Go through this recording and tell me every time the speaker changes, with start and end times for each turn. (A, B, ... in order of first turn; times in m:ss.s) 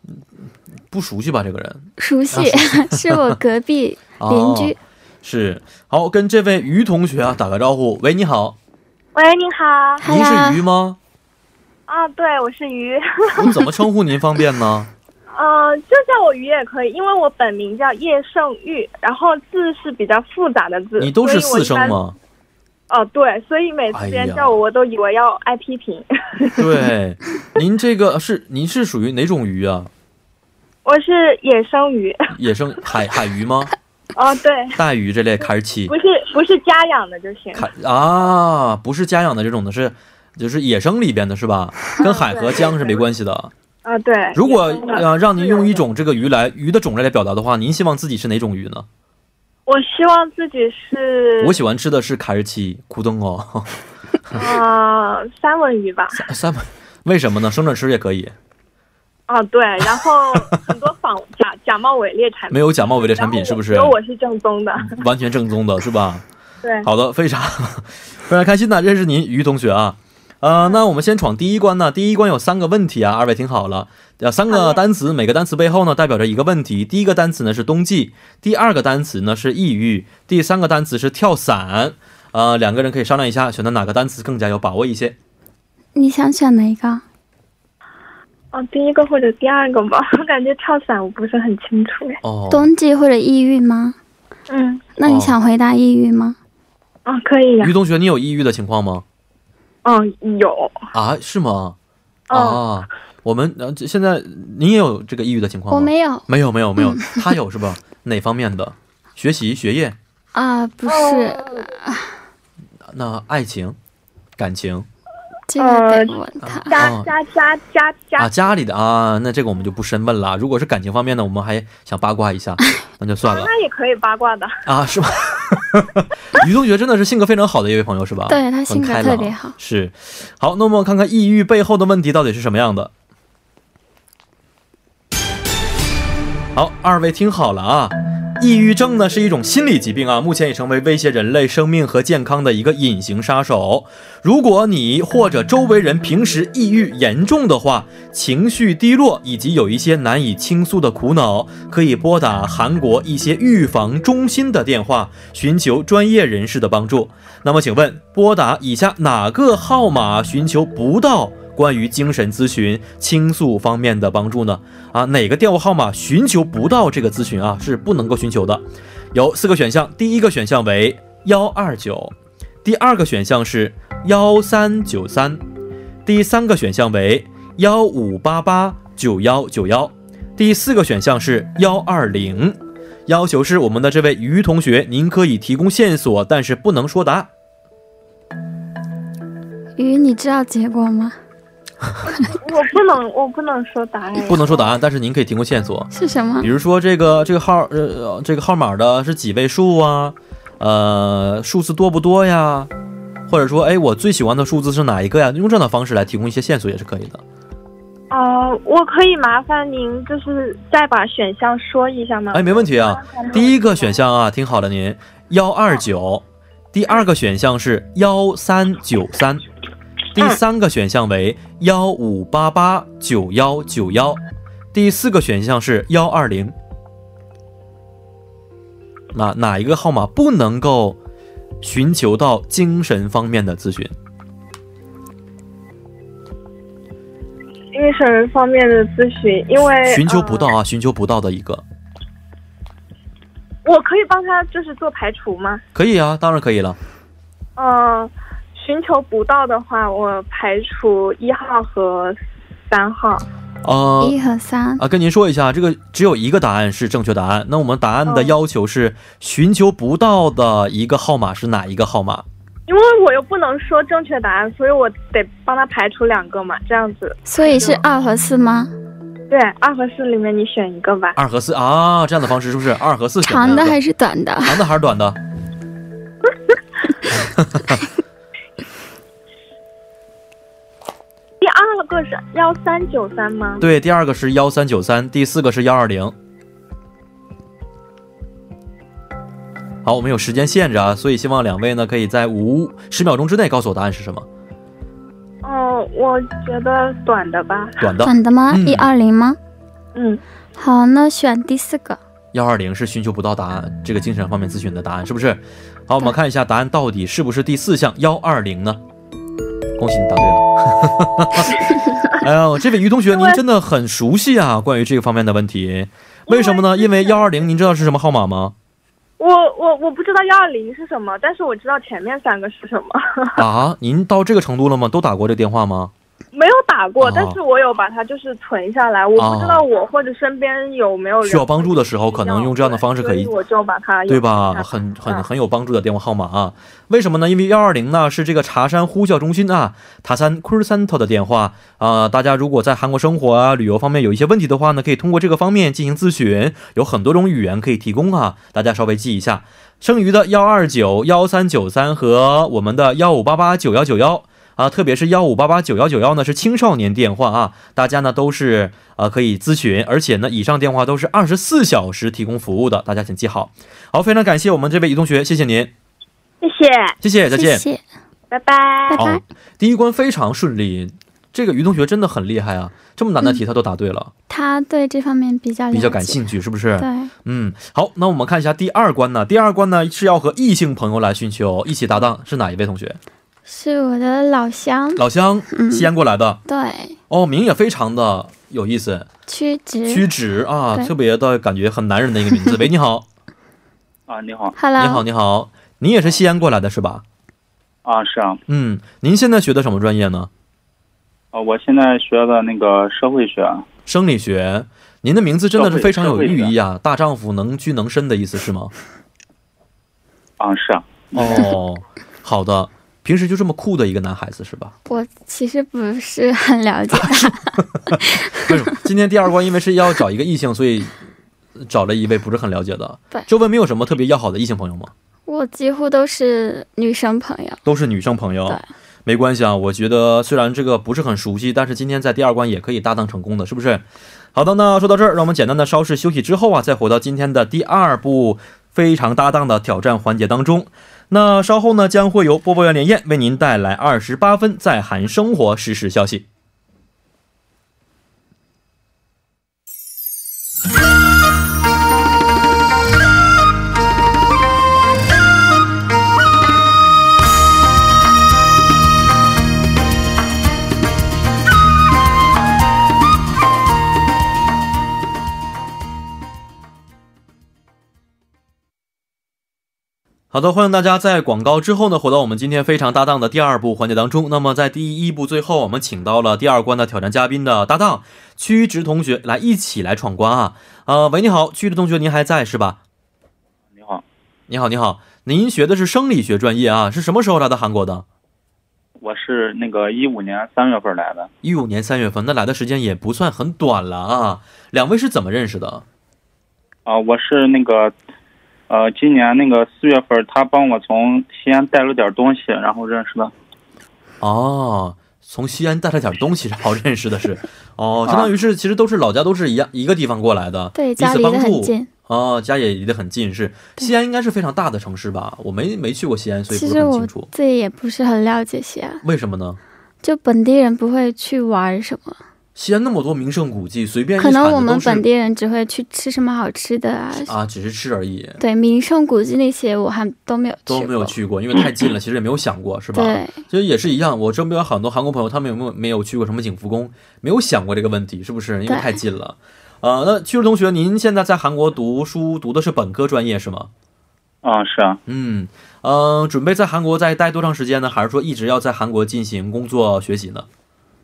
0:00.9-0:03.4 A
0:02.0-0:04.8 B
0:04.2-0:08.6 A
0:09.2-0:10.0 C
0:10.0-0:10.6 B
0:10.0-0:11.0 A
0:11.9-0:13.5 C
0:13.4-0:14.9 A
0:15.3-0:22.0 C
0:21.0-0:22.2 A
0:22.9-0:26.7 C
0:23.9-0:24.6 A
0:26.6-0:29.9 A
0:30.8-0:32.2 C
0:32.3-0:33.7 A
0:34.2-0:34.8 C
0:34.8-0:35.9 A
0:35.9-0:37.7 C
0:37.6-0:43.5 A
0:42.0-0:43.0 C
0:43.8-0:45.8 C
0:44.4-0:48.9 A
0:49.7-0:51.6 C
0:51.4-0:54.4 A
0:54.3-0:56.2 C
0:56.2-0:58.3 A
0:59.3-1:05.0 C
0:59.8-1:00.6 A
1:02.5-1:04.0 A
1:04.8-1:06.2 A
1:06.6-1:06.9 C
1:06.8-1:25.2 A
1:14.5-1:14.8 C
1:26.0-1:27.0 B
1:28.5-1:32.2 C
1:32.2-1:32.7 A
1:32.5-1:34.0 B
1:34.5-1:34.8 C
1:35.0-1:36.4 B
1:35.0-1:35.4 A
1:37.1-1:37.7 C
1:37.6-1:39.0 A
1:39.8-1:40.8 C
1:40.9-1:41.8 A
1:42.3-1:42.6 C
1:42.3-1:50.0 A
1:45.7-1:46.3 B
1:46.8-1:47.2 B
1:50.3-1:52.1 B
1:50.9-1:51.6 C
1:52.9-1:53.8 A
1:54.4-1:54.9 A
1:55.5-1:56.8 B
1:55.6-1:56.2 C
1:56.4-1:57.1 A
1:56.7-1:58.3 C
1:58.2-2:03.5 A
2:03.2-2:04.6 C
2:04.6-2:12.9 A
2:08.3-2:09.6 B
2:16.6-2:55.4 A
2:56.1-3:07.3 A
3:09.8-3:11.2 B
3:12.3-3:14.7 C
3:14.2-3:15.9 A
3:15.9-3:16.5 B
3:16.4-3:22.7 A
3:23.3-3:27.2 A
3:28.1-3:33.8 C
3:32.3-3:39.4 A
3:40.1-3:44.2 A
3:44.7-3:46.6 A
3:49.1-3:51.0 A
3:51.6-3:53.9 A
3:57.7-4:00.5 C
3:59.8-4:01.6 A
4:03.6-4:05.6 C
4:05.8-4:06.8 A
4:07.6-4:13.3 C
4:13.6-4:14.2 A
4:14.0-4:14.8 B
4:14.8-4:22.2 A
4:18.1-4:18.4 C
4:22.7-4:27.8 C
4:27.3-4:28.7 B
4:29.3-4:31.2 C
4:31.2-4:33.8 A
4:33.2-4:34.6 B
4:34.4-4:35.2 A
4:37.1-4:37.8 A
4:41.4-4:43.6 C
4:43.6-4:46.2 A
4:49.8-4:54.3 A
4:55.4-4:57.8 C
4:57.8-4:58.9 A
4:58.0-4:59.4 B
5:00.0-5:00.2 C
5:00.6-5:02.0 B
5:02.3-5:08.8 A
5:09.8-5:18.6 A
5:16.3-5:17.4 C
5:19.2-5:23.4 C
5:23.4-5:25.9 A
5:26.3-5:35.3 C
5:27.0-5:27.4 A
5:29.2-5:29.6 A
5:31.2-5:33.3 A
5:34.1-6:05.7 A
6:06.4-6:07.0 C
6:07.0-6:07.6 A
6:07.3-6:07.8 B
6:08.3-6:09.0 C
6:08.9-6:09.2 B
6:09.0-6:14.1 A
6:14.3-6:16.2 B
6:15.7-6:23.0 A
6:16.8-6:17.1 B
6:23.5-6:25.9 B
6:25.0-6:26.4 A
6:26.5-6:27.0 B
6:27.1-6:29.1 A
6:29.3-6:30.1 B
6:29.9-6:33.1 A
6:34.1-6:34.6 D
6:34.6-6:35.0 B
6:34.8-6:37.0 A
6:37.8-6:38.4 D
6:38.5-6:40.3 A
6:41.3-6:43.7 D
6:43.9-6:48.7 A
6:45.5-6:46.5 D
6:50.4-6:51.4 D
6:51.1-6:54.8 A
6:54.9-6:58.5 B
6:57.0-7:01.0 A
7:01.6-7:04.9 A
7:05.3-7:07.6 B
7:07.6-7:26.3 A
7:50.3-8:02.8 A
8:03.7-8:04.0 D
8:04.5-8:08.0 A
8:09.0-8:11.3 D
8:11.4-8:15.8 A
8:16.9-8:18.0 D
8:18.7-8:23.3 D
8:24.2-8:37.3 A
8:28.1-8:28.3 D
8:30.8-8:31.9 B
8:36.5-8:39.0 B
8:39.0-8:39.6 A
8:40.0-8:42.2 B
8:42.6-8:45.0 A
8:44.2-8:47.3 B
8:47.2-8:48.4 A
8:48.4-8:51.1 B
8:50.7-9:03.7 A
8:52.9-8:53.4 B
8:58.7-8:59.0 B
9:04.4-9:05.0 D
9:05.1-9:10.5 A